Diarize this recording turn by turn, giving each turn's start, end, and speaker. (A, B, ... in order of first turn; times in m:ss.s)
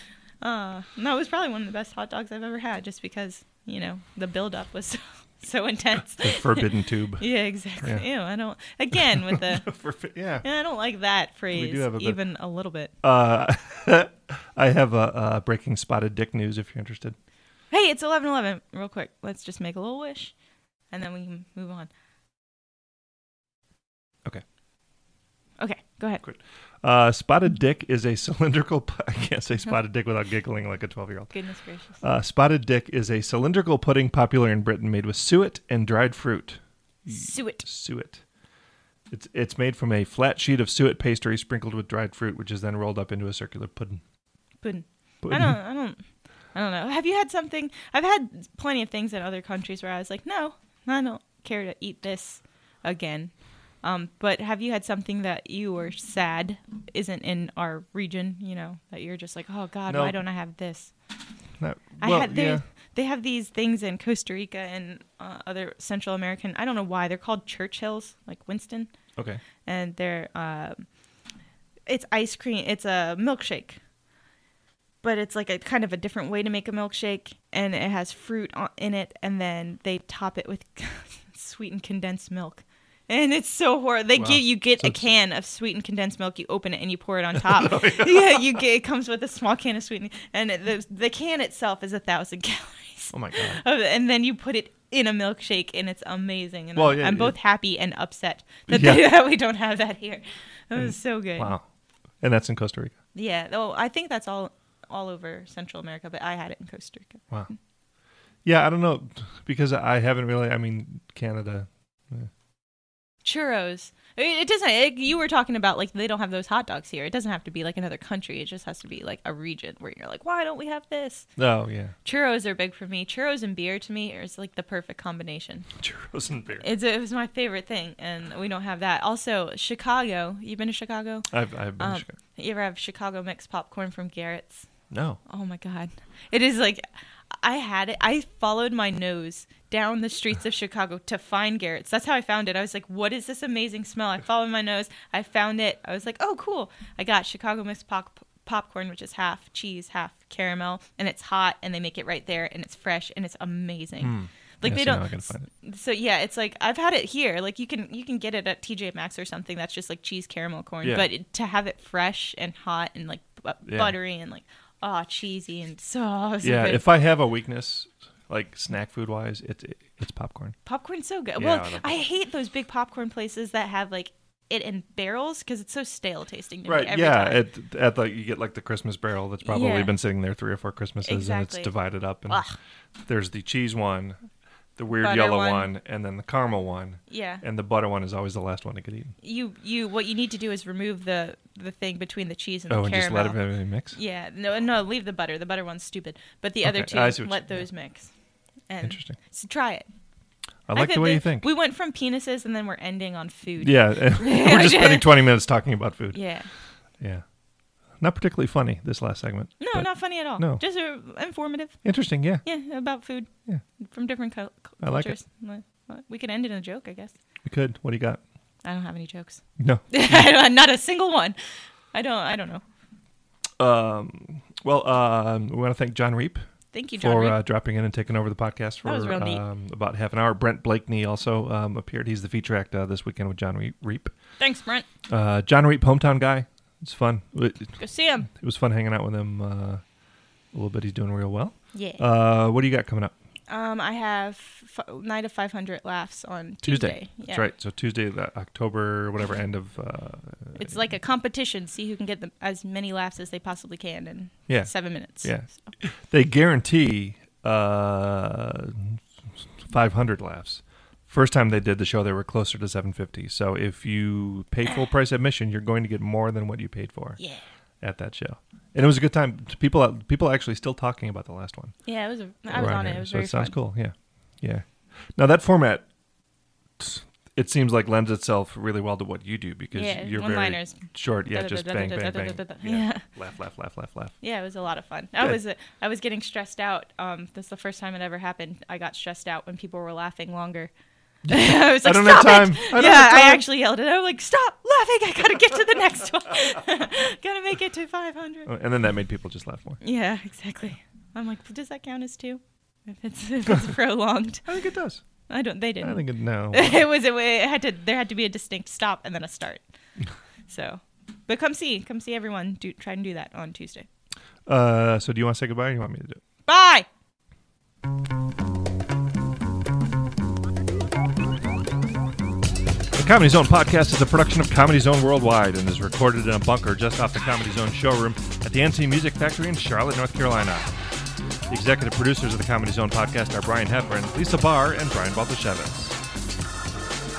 0:00.4-0:06.7 A
0:06.2-0:07.3 B
0:07.2-0:09.7 A
0:07.8-0:08.0 B
0:09.3-0:10.4 B
0:10.4-0:12.9 A
0:11.5-0:12.2 B
0:13.0-0:17.2 B
0:17.7-0:20.3 A
0:20.9-0:21.9 A
0:25.6-0:26.2 A
0:26.2-0:31.3 B
0:31.3-0:32.0 A
0:32.0-0:38.2 B
0:37.1-0:37.6 A
0:39.1-0:44.0 B
0:44.6-0:46.0 A
0:45.2-0:45.6 B
0:46.5-1:00.9 A
0:59.9-1:00.2 B
1:01.6-1:02.6 B
1:02.0-1:08.9 A
1:09.6-1:10.9 A
1:11.9-1:13.8 A
1:15.0-1:41.6 A
1:24.2-1:25.1 B
1:27.6-1:28.6 B
1:33.1-1:33.6 B
1:36.8-1:37.4 B
1:38.7-1:39.1 B
1:40.8-1:41.6 B
1:42.2-1:43.0 B
1:43.2-1:47.5 A
1:48.4-1:52.3 B
1:53.2-2:01.3 A
2:01.4-2:01.9 B
2:02.0-2:05.7 A
2:05.8-2:06.6 B
2:06.6-2:11.3 A
2:11.3-2:12.2 B
2:11.8-2:14.7 A
2:14.9-2:15.2 B
2:15.3-2:46.8 A
2:34.0-2:35.5 B
2:43.7-2:44.0 B
2:46.4-2:50.6 B
2:50.6-2:57.4 A
2:51.4-2:52.0 B
2:56.7-3:02.4 B
2:59.5-2:59.9 A
3:01.0-3:01.7 A
3:02.3-3:02.6 A
3:03.1-3:04.2 B
3:04.8-3:09.2 B
3:05.0-3:05.7 A
3:07.1-3:07.4 A
3:09.2-3:13.4 A
3:12.7-3:14.0 B
3:13.9-3:18.1 A
3:16.6-3:17.7 B
3:18.7-3:19.9 A
3:18.8-3:19.2 B
3:20.7-3:21.5 B
3:20.7-3:25.1 A
3:23.6-3:26.2 B
3:26.1-3:26.5 A
3:28.0-3:30.6 B
3:29.6-3:31.8 A
3:31.8-3:32.4 B
3:32.4-3:33.3 A
3:33.8-3:37.2 A
3:34.8-3:35.2 B
3:37.4-3:38.2 B
3:38.6-3:41.4 A
3:39.6-3:40.2 B
3:41.9-3:42.6 A
3:43.6-3:46.4 B
3:46.7-3:47.4 A
3:47.0-3:54.1 B
3:48.8-3:49.4 A
3:54.4-3:54.9 A
3:55.1-3:59.8 B
3:57.8-3:58.3 A
4:00.5-4:03.1 B
4:01.7-4:02.0 A
4:03.5-4:07.5 A
4:06.7-4:10.8 B
4:10.6-4:15.7 A
4:14.5-4:19.0 B
4:19.7-4:27.2 B
4:27.2-4:27.4 A
4:27.8-4:31.8 B
4:31.9-4:33.6 A
4:32.5-4:35.8 B
4:36.8-4:44.2 B
4:39.7-4:43.0 A
4:44.2-4:50.7 A
4:51.3-4:53.4 B
4:51.3-4:58.5 A
4:58.5-4:59.8 B
4:59.8-5:04.5 A
5:04.5-5:05.0 B
5:05.3-5:09.6 A
5:05.8-5:06.9 B
5:10.5-5:13.9 A
5:14.5-5:16.2 B
5:16.5-5:16.9 A
5:23.0-5:30.7 B
5:31.5-5:36.0 B